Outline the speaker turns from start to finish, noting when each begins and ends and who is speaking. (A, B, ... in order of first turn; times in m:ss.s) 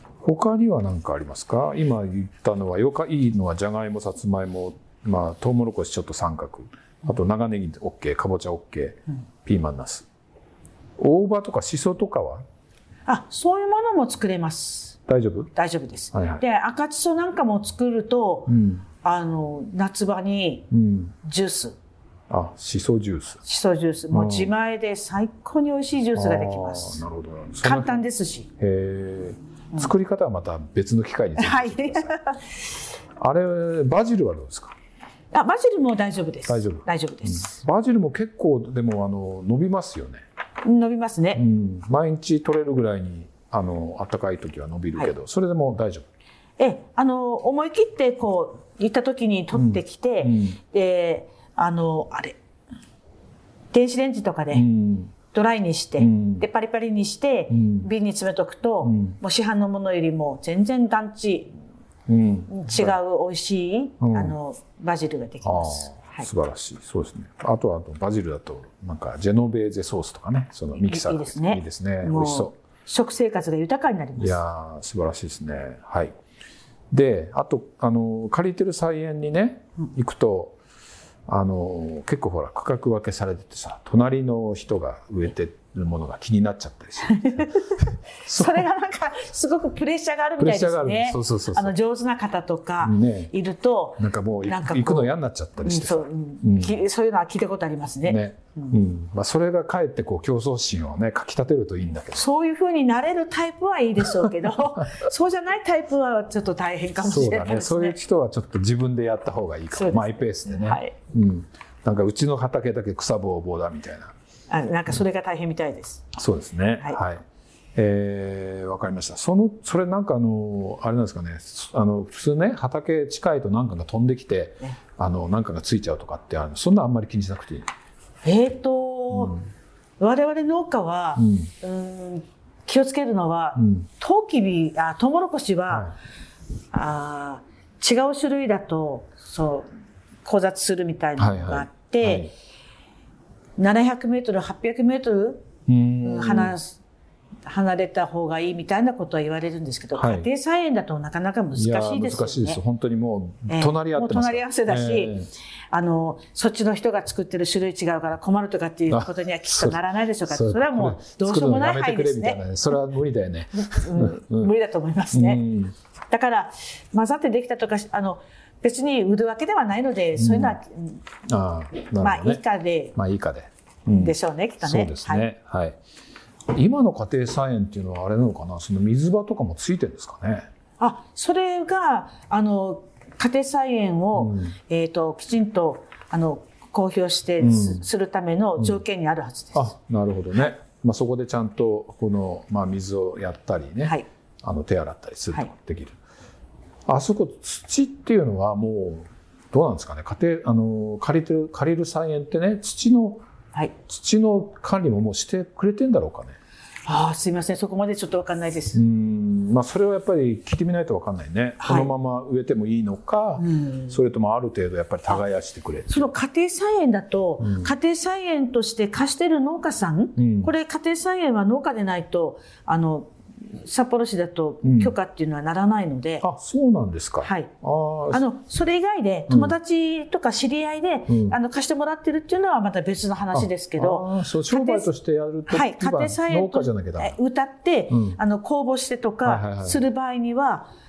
0:00.2-0:10.1 A
0:11.0-0:12.4 A
0:13.1-0:15.0 B
0:15.1-0:15.5 A
0:15.5-0:18.5 B
0:16.1-0:16.4 A
0:18.5-0:18.8 A
0:19.0-0:20.7 B
0:20.7-0:21.2 A
0:21.2-0:21.8 B
0:22.3-0:23.4 A
0:23.4-0:27.0 B
0:24.1-0:24.5 A
0:26.1-0:28.0 A
0:27.6-0:28.5 B
0:28.6-0:32.2 A
0:31.4-0:32.6 B
0:33.2-0:34.8 A
0:35.3-0:37.6 B
0:36.5-0:40.2 A
0:40.6-0:41.4 B
0:41.4-0:46.0 A
0:46.6-0:52.4 B
0:49.5-0:50.6 A
0:53.7-0:54.7 B
0:54.5-0:55.2 A
0:55.3-1:01.5 B
0:56.0-0:56.5 A
0:57.5-0:57.9 A
0:58.8-0:59.2 A
1:02.1-1:03.0 A
1:02.5-1:06.3 B
1:04.0-1:04.4 A
1:05.4-1:12.5 A
1:10.8-1:14.4 B
1:14.2-1:16.1 A
1:16.9-1:20.6 A
1:21.3-1:28.6 A
1:27.0-1:38.8 B
1:30.4-1:31.7 A
1:32.8-1:33.3 A
1:34.0-1:36.8 A
1:38.0-1:42.3 A
1:42.1-1:48.0 B
1:47.0-1:54.1 A
1:49.7-1:51.0 B
1:54.5-1:56.1 B
1:56.1-1:57.2 A
1:57.8-2:07.7 A
2:08.2-2:09.4 B
2:10.0-2:15.9 B
2:11.2-2:11.5 A
2:13.6-2:13.9 A
2:16.7-2:19.7 B
2:20.2-2:22.3 B
2:21.2-2:22.3 A
2:23.6-2:25.5 B
2:25.7-2:26.6 A
2:26.0-2:26.8 B
2:27.5-2:32.6 B
2:30.0-2:30.3 A
2:31.5-2:35.3 A
2:33.5-2:35.1 B
2:35.7-2:42.7 B
2:38.9-2:44.5 A
2:43.6-2:45.4 B
2:45.1-2:45.7 A
2:46.1-2:51.0 B
2:50.2-2:50.6 A
2:51.3-2:52.4 A
2:52.0-2:53.0 B
2:53.0-2:55.8 A
2:53.9-2:55.3 B
2:56.5-3:00.5 A
3:00.8-3:09.7 B
3:04.2-3:04.6 A
3:07.4-3:07.9 A
3:09.5-3:16.0 A
3:16.9-3:23.2 A
3:23.9-3:26.4 A
3:26.9-3:28.8 B
3:28.7-3:36.1 A
3:31.6-3:31.9 B
3:33.4-3:34.0 B
3:35.9-3:46.2 B
3:37.4-3:37.7 A
3:40.2-3:40.5 A
3:44.6-3:44.9 A
3:46.2-3:48.2 A
3:47.2-3:47.5 B
3:48.1-3:54.9 B
3:49.3-3:49.6 A
3:51.1-3:51.4 A
3:53.3-3:57.2 A
3:55.5-4:00.7 B
3:57.9-3:58.2 A
3:59.2-3:59.8 A